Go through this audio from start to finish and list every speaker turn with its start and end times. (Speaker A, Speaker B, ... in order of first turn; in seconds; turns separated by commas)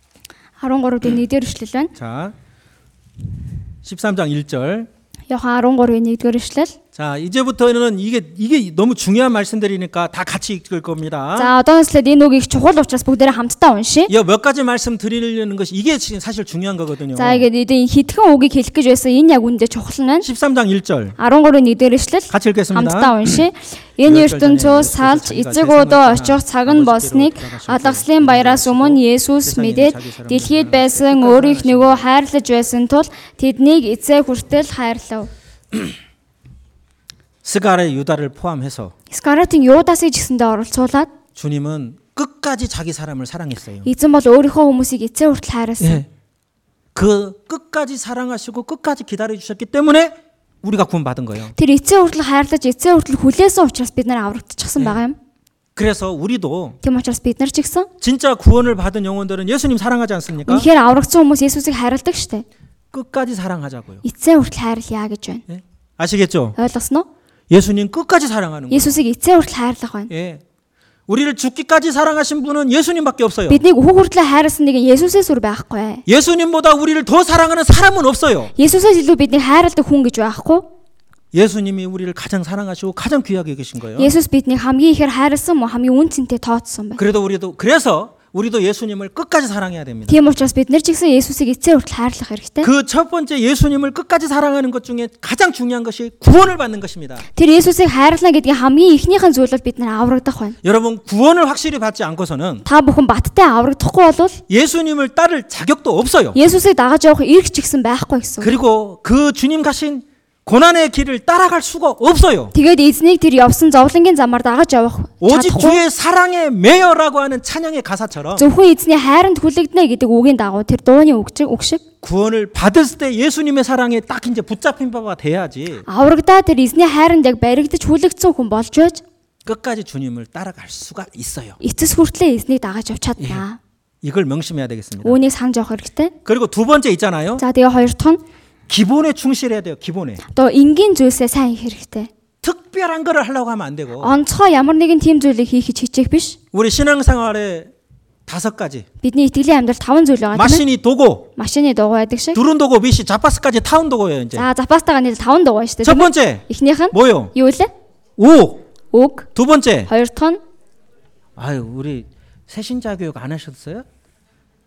Speaker A: 0.6-1.9, Speaker B: 1.9-2.3, Speaker B: 3.8-4.9, Speaker A: 5.3-6.8, Speaker B: 6.9-11.5, Speaker A: 11.3-14.1, Speaker B: 14.1-17.5, Speaker A: 17.1-20.3, Speaker B: 20.2-21.1, Speaker A: 21.2-35.3, Speaker B: 22.3-23.4, Speaker B: 24.0-32.0, Speaker B: 37.4-38.9, Speaker A: 39.1-41.1, Speaker B: 41.4-43.9, Speaker A: 43.8-46.0, Speaker B: 45.8-46.1, Speaker B: 46.9-51.5, Speaker A: 51.5-55.2, Speaker B: 55.8-56.8, Speaker A: 56.8-57.9, Speaker B: 58.0-60.7, Speaker A: 60.5-62.4, Speaker B: 62.9-64.0, Speaker A: 64.0-65.4, Speaker B: 65.5-66.6, Speaker A: 66.6-67.0, Speaker B: 67.5-69.0, Speaker A: 68.7-70.1, Speaker B: 70.1-70.4, Speaker B: 71.1-73.6, Speaker A: 73.5-76.0, Speaker B: 76.0-78.5, Speaker A: 78.5-80.7, Speaker B: 81.3-84.1, Speaker A: 84.0-87.0, Speaker B: 87.0-90.2, Speaker A: 90.1-92.7, Speaker B: 92.6-97.2, Speaker A: 97.3-100.6, Speaker B: 100.6-102.6, Speaker A: 102.6-104.4, Speaker B: 104.5-106.4, Speaker A: 106.3-108.5, Speaker B: 108.4-112.5, Speaker A: 112.5-115.8, Speaker B: 115.2-118.5, Speaker A: 118.3-121.8, Speaker B: 122.0-125.8, Speaker A: 125.9-129.0, Speaker B: 129.4-131.6, Speaker A: 131.6-133.6, Speaker B: 133.2-133.4, Speaker B: 134.0-135.2, Speaker A: 135.0-136.1, Speaker B: 136.2-137.4, Speaker A: 137.4-138.2, Speaker B: 138.7-140.2, Speaker A: 140.3-142.1, Speaker B: 142.4-144.2, Speaker A: 144.0-146.4, Speaker B: 146.5-147.7, Speaker B: 148.2-148.8, Speaker A: 149.0-150.6, Speaker B: 150.3-151.3, Speaker A: 151.3-152.4, Speaker B: 152.3-154.5, Speaker A: 154.3-157.7, Speaker B: 155.8-157.3, Speaker B: 158.2-158.7, Speaker A: 158.9-159.3, Speaker B: 159.3-159.9, Speaker A: 159.9-160.4, Speaker B: 161.3-163.8